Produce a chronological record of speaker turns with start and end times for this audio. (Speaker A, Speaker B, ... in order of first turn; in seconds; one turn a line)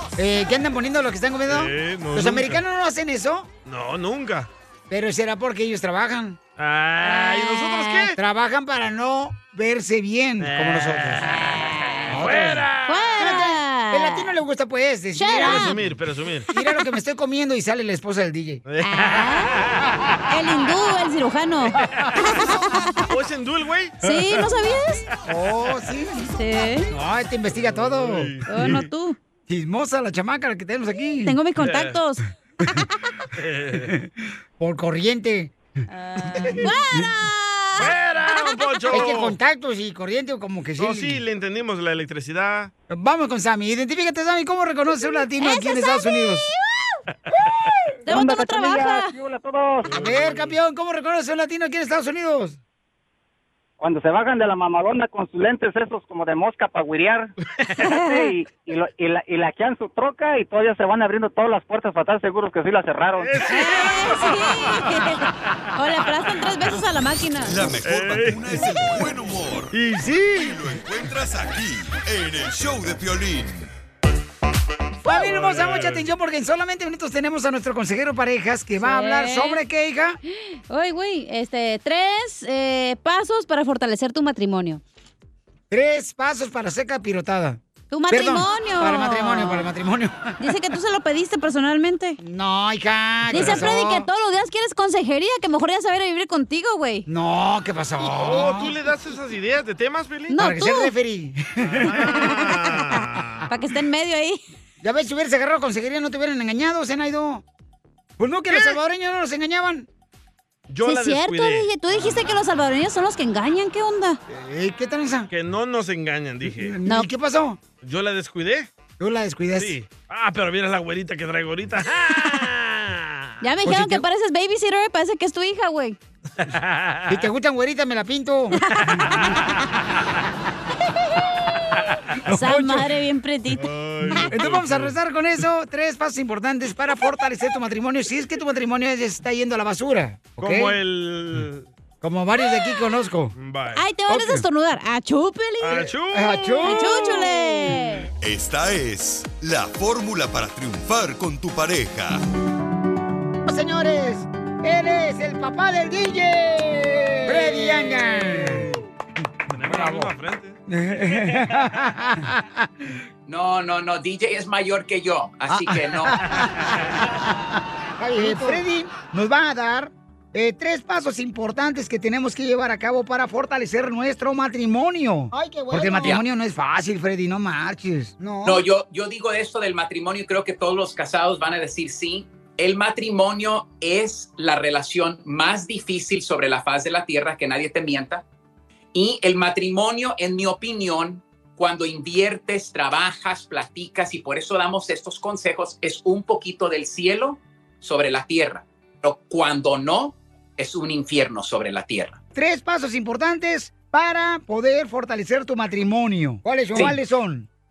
Speaker A: 0.2-3.5
Speaker B: 1.5-2.6
Speaker B: 3.6-4.5
Speaker A: 4.9-6.4
Speaker B: 6.6-8.2
Speaker C: 7.0-8.1
Speaker A: 8.2-11.3
Speaker B: 10.4-13.3
Speaker C: 11.6-12.1
Speaker A: 12.1-12.7
Speaker C: 12.9-14.3
Speaker A: 13.2-15.8
Speaker C: 15.1-15.8
Speaker B: 15.4-16.5
Speaker A: 16.5-18.6
Speaker B: 18.6-19.9
Speaker C: 18.8-19.7
Speaker C: 20.3-23.0
Speaker B: 21.8-22.2
Speaker B: 23.1-24.4
Speaker C: 24.0-25.1
Speaker A: 25.3-26.3
Speaker C: 26.4-26.9
Speaker A: 26.9-28.4
Speaker B: 27.6-28.8
Speaker C: 28.5-29.2
Speaker A: 29.5-31.4
Speaker C: 31.2-32.2
Speaker B: 31.6-32.0
Speaker B: 33.3-33.9
Speaker A: 34.6-35.5
Speaker C: 35.9-39.0
Speaker A: 36.3-37.1
Speaker B: 37.8-39.4
Speaker A: 38.9-41.2
Speaker B: 40.8-42.7
Speaker A: 42.9-46.5
Speaker C: 45.4-47.0
Speaker C: 48.1-49.1
Speaker D: 48.1-49.9
Speaker B: 49.8-50.5
Speaker A: 49.9-52.6
Speaker D: 53.8-57.3
Speaker C: 57.8-58.3
Speaker D: 57.9-63.4
Speaker B: 63.2-65.1
Speaker C: 63.4-67.6
Speaker E: 67.5-69.7
Speaker B: 67.8-68.4
Speaker A: 69.7-70.6
Speaker E: 70.3-73.7
Speaker A: 75.0-80.2
Speaker B: 75.1-76.0
Speaker C: 78.8-79.6
Speaker C: 80.7-84.8
Speaker A: 85.7-90.4
Speaker C: 87.9-89.7
Speaker C: 90.4-92.2
Speaker A: 92.2-94.1
Speaker C: 93.3-97.0
Speaker B: 93.3-93.7
Speaker A: 97.1-98.7
Speaker B: 98.0-100.4
Speaker C: 100.3-100.9
Speaker A: 100.3-102.3
Speaker B: 101.6-103.5
Speaker C: 102.1-104.4
Speaker A: 104.8-107.4
Speaker A: 108.2-109.9
Speaker B: 110.7-111.7
Speaker C: 110.8-114.2
Speaker A: 114.3-115.3
Speaker B: 115.3-116.8
Speaker A: 116.5-117.6
Speaker B: 117.8-118.7
Speaker A: 119.0-119.7
Speaker B: 119.5-123.3
Speaker C: 123.4-126.0
Speaker A: 123.7-124.0
Speaker B: 126.4-127.2
Speaker A: 127.1-128.6
Speaker C: 128.6-128.9
Speaker B: 128.9-129.4
Speaker A: 132.3-132.9
Speaker C: 132.3-134.3
Speaker B: 133.6-134.9
Speaker A: 134.1-140.8
Speaker B: 140.4-141.7
Speaker A: 142.0-143.3
Speaker B: 143.4-143.8
Speaker C: 143.7-145.9
Speaker A: 144.1-144.4
Speaker B: 145.6-146.6
Speaker A: 145.9-147.8
Speaker C: 146.5-148.1
Speaker E: 148.2-152.2
Speaker A: 153.4-158.7
Speaker B: 159.5-160.6
Speaker A: 159.6-160.1
Speaker A: 160.7-162.4
Speaker B: 161.1-161.4
Speaker F: 163.3-166.2
Speaker A: 165.5-166.6
Speaker A: 168.0-178.6
Speaker F: 178.4-188.2
Speaker F: 188.9-202.2
Speaker A: 202.3-207.5
Speaker F: 206.7-207.0